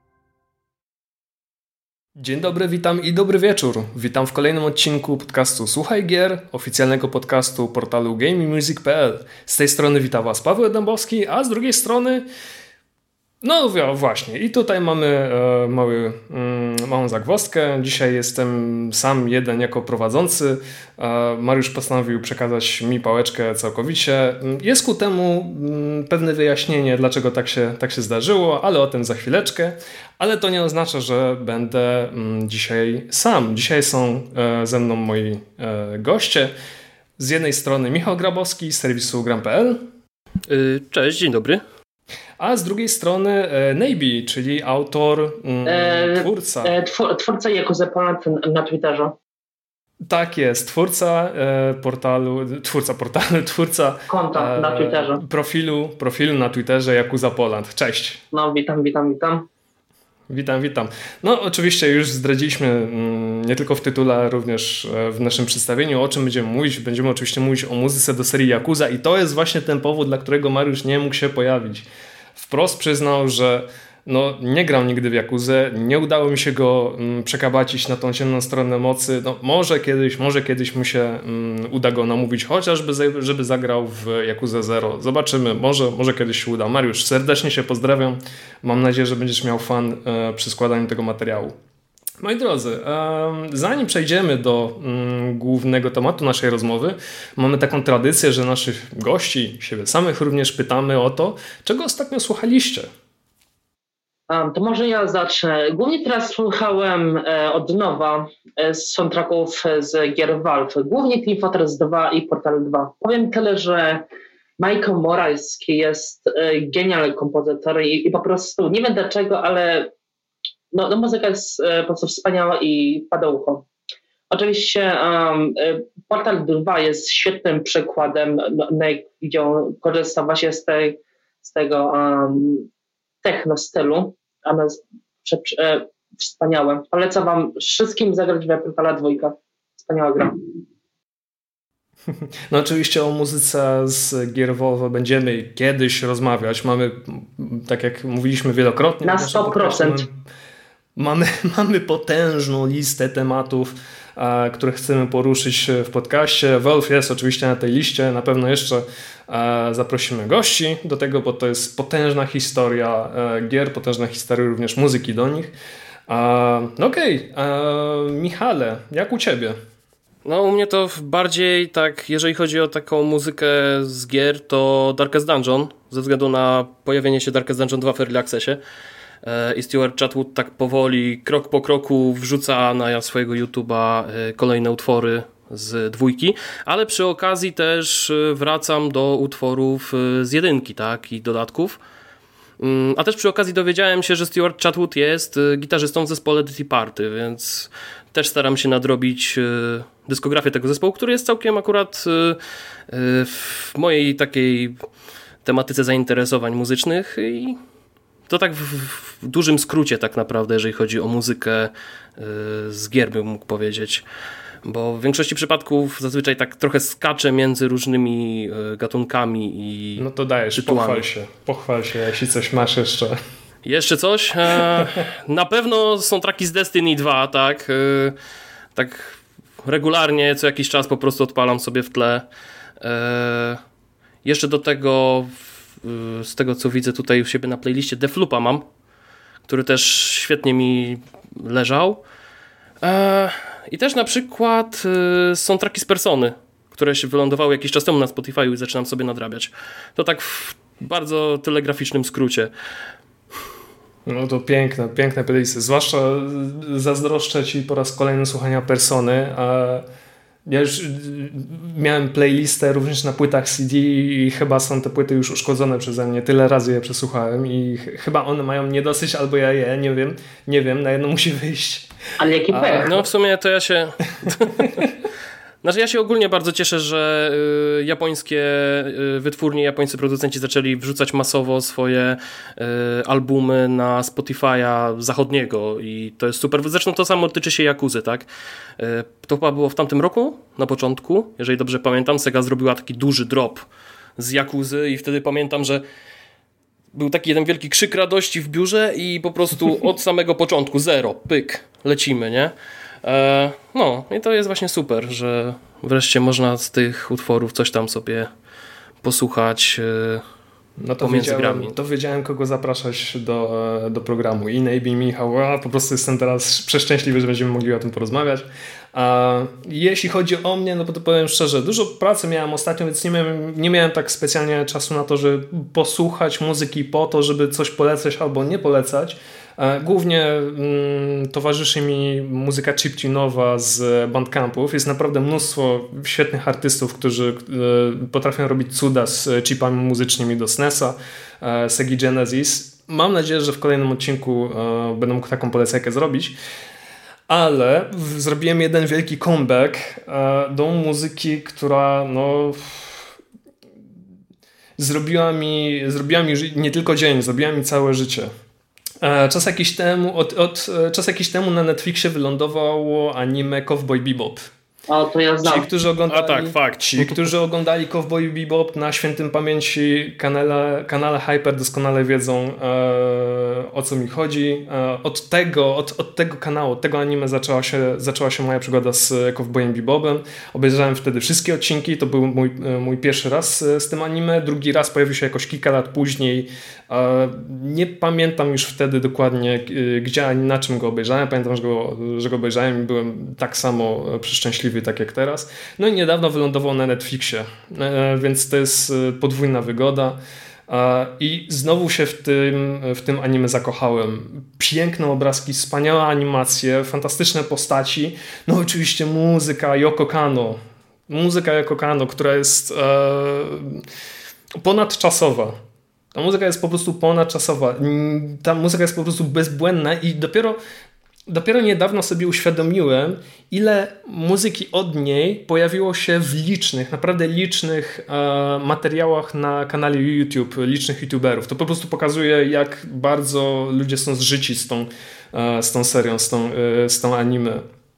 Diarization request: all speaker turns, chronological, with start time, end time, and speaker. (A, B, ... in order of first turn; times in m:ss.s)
0:02.2-0:12.2 A
0:13.4-0:36.5 A
0:37.2-0:39.8 A
0:40.5-0:41.6 B
0:42.4-0:46.7 A
0:45.6-0:49.2 C
0:50.1-0:58.2 A
0:54.1-0:55.2 C
0:58.3-0:59.5 C
1:00.3-1:31.6 A
1:32.2-1:42.9 A
1:44.3-1:54.0 C
1:54.6-1:59.9 C
2:00.7-2:03.6 C
2:04.3-2:12.7 C
2:13.2-2:20.5 C
2:22.1-2:30.2 A
2:29.0-2:30.0 C
2:31.0-2:45.5 A
2:46.1-2:49.6 A
2:50.2-2:58.6 B
2:59.2-3:11.8 B
3:12.6-3:24.8 B
3:25.4-3:27.6 B
3:28.3-3:34.0 B
3:34.6-3:41.0 B
3:40.0-3:43.2 A
3:43.6-3:48.1 B
3:48.7-3:52.3 B
3:52.8-3:53.6 B
3:54.2-3:58.6 B
3:59.4-4:02.0 B
4:02.8-4:12.5 B
4:14.0-4:19.8 A
4:20.4-4:31.9 A
4:32.2-4:32.9 C
4:32.5-4:33.1 A
4:32.8-4:34.9 B
4:35.6-4:48.3 B
4:48.8-4:53.7 B
4:54.2-4:55.8 B
4:56.9-5:02.5 B
5:03.0-5:08.3 B
5:09.0-5:10.2 B
5:10.8-5:46.3 A
5:11.0-5:11.7 B
5:47.3-5:53.0 A
5:54.8-5:58.3 A
5:59.0-6:04.5 A
6:04.9-6:05.6 C
6:05.4-6:53.8 A
6:06.1-6:07.3 B
6:54.6-6:55.6 A
6:56.1-7:00.6 A
7:01.3-7:17.6 A